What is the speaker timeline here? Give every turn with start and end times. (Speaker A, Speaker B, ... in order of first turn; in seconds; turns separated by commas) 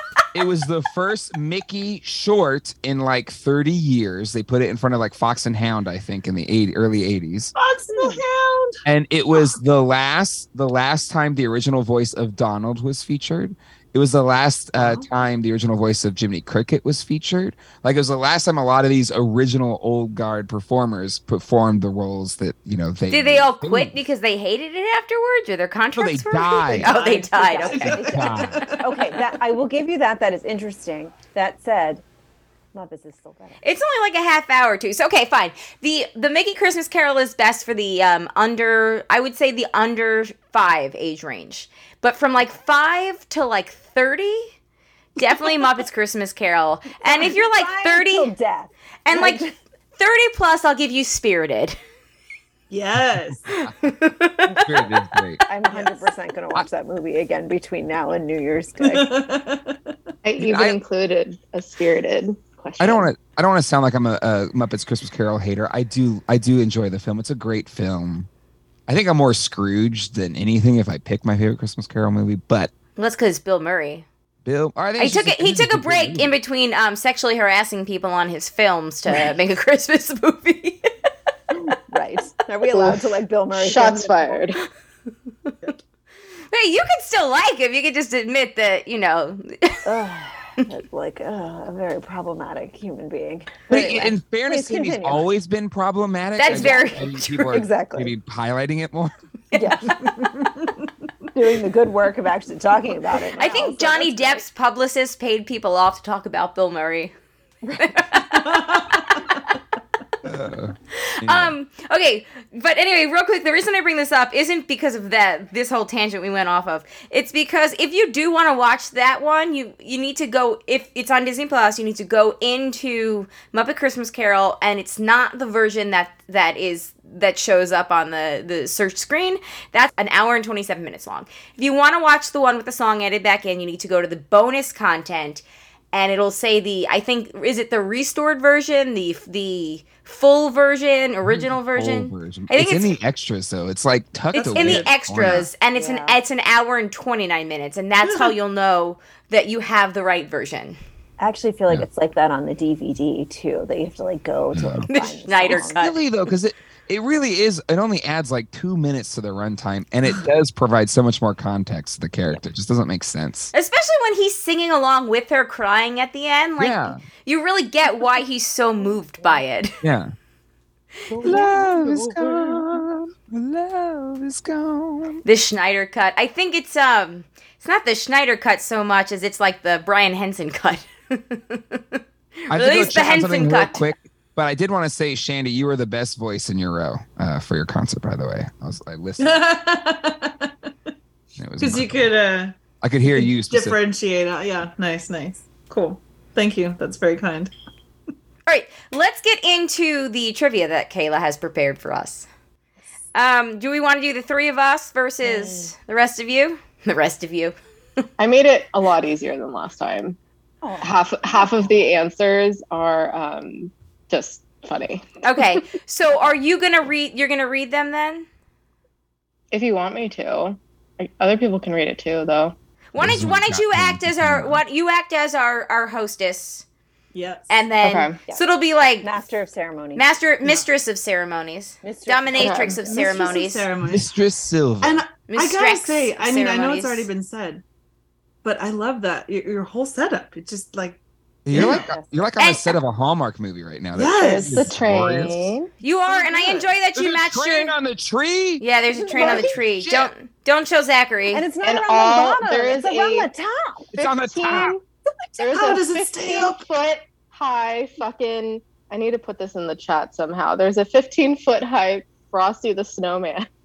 Speaker A: 0.3-7.5, Speaker B: 7.5-8.8, Speaker C: 8.0-8.2, Speaker A: 8.8-23.9, Speaker B: 14.8-15.1, Speaker D: 23.1-28.1, Speaker A: 26.0-26.9, Speaker C: 26.8-32.0, Speaker A: 27.8-28.7, Speaker B: 28.4-28.8, Speaker C: 32.7-33.6, Speaker D: 33.6-44.5, Speaker D: 45.2-48.3, Speaker C: 47.0-49.5, Speaker D: 49.0-49.4, Speaker D: 50.0-51.8, Speaker B: 52.7-53.4, Speaker D: 53.8-54.5, Speaker A: 54.5-55.4, Speaker C: 55.5-59.1, Speaker B: 55.7-56.0, Speaker B: 58.8-59.9, Speaker E: 60.2-63.1, Speaker A: 60.4-60.8, Speaker A: 62.8-68.3, Speaker A: 68.9-72.7, Speaker D: 73.0-74.1, Speaker A: 74.5-76.4, Speaker D: 75.0-80.9, Speaker C: 81.5-84.4, Speaker E: 82.7-83.0, Speaker E: 83.5-84.6, Speaker D: 86.5-89.8, Speaker C: 89.9-95.3, Speaker A: 93.7-99.1, Speaker D: 96.4-97.6, Speaker C: 96.5-98.1, Speaker C: 99.5-100.0, Speaker C: 101.3-104.5, Speaker D: 103.4-107.1, Speaker D: 107.8-109.5, Speaker B: 108.5-109.3, Speaker A: 110.2-111.5, Speaker D: 111.2-142.9, Speaker A: 141.2-145.5, Speaker B: 144.3-145.4, Speaker D: 144.5-150.8, Speaker C: 145.7-146.2, Speaker B: 148.0-148.3, Speaker C: 151.2-155.8, Speaker A: 154.5-154.9, Speaker D: 154.9-156.0, Speaker A: 155.5-163.5, Speaker D: 163.5-169.8, Speaker A: 166.6-167.0, Speaker A: 169.8-170.1, Speaker A: 171.1-175.2, Speaker C: 171.3-171.8, Speaker D: 175.2-183.9, Speaker A: 182.5-189.4, Speaker B: 189.2-190.7, Speaker A: 191.4-192.1, Speaker B: 191.6-192.6, Speaker A: 192.8-193.8, Speaker B: 193.1-197.5, Speaker D: 198.5-202.3, Speaker D: 203.1-207.6, Speaker C: 205.2-205.7, Speaker E: 208.2-210.2, Speaker C: 210.6-211.9, Speaker E: 210.8-215.4, Speaker D: 215.2-218.3, Speaker E: 219.5-222.6, Speaker D: 222.9-226.7, Speaker A: 223.0-224.6, Speaker B: 227.1-227.5, Speaker D: 227.5-229.1, Speaker E: 227.8-228.2, Speaker C: 229.0-230.1, Speaker D: 230.0-233.7, Speaker C: 231.8-233.4, Speaker E: 232.4-232.8, Speaker B: 232.9-234.1, Speaker A: 233.9-235.0, Speaker B: 234.8-237.6, Speaker D: 235.3-237.1, Speaker B: 238.4-241.0, Speaker A: 241.5-245.6, Speaker B: 241.5-241.8, Speaker C: 241.6-242.2, Speaker D: 242.4-242.8, Speaker B: 243.9-244.7, Speaker E: 244.2-245.7, Speaker D: 245.8-247.8, Speaker B: 246.2-246.6, Speaker A: 246.9-248.6, Speaker D: 248.6-251.4, Speaker C: 248.9-249.6, Speaker A: 249.2-250.1, Speaker C: 251.3-253.9, Speaker E: 251.6-253.3, Speaker A: 253.9-254.8, Speaker E: 254.0-254.8, Speaker E: 255.4-263.5, Speaker B: 255.4-256.6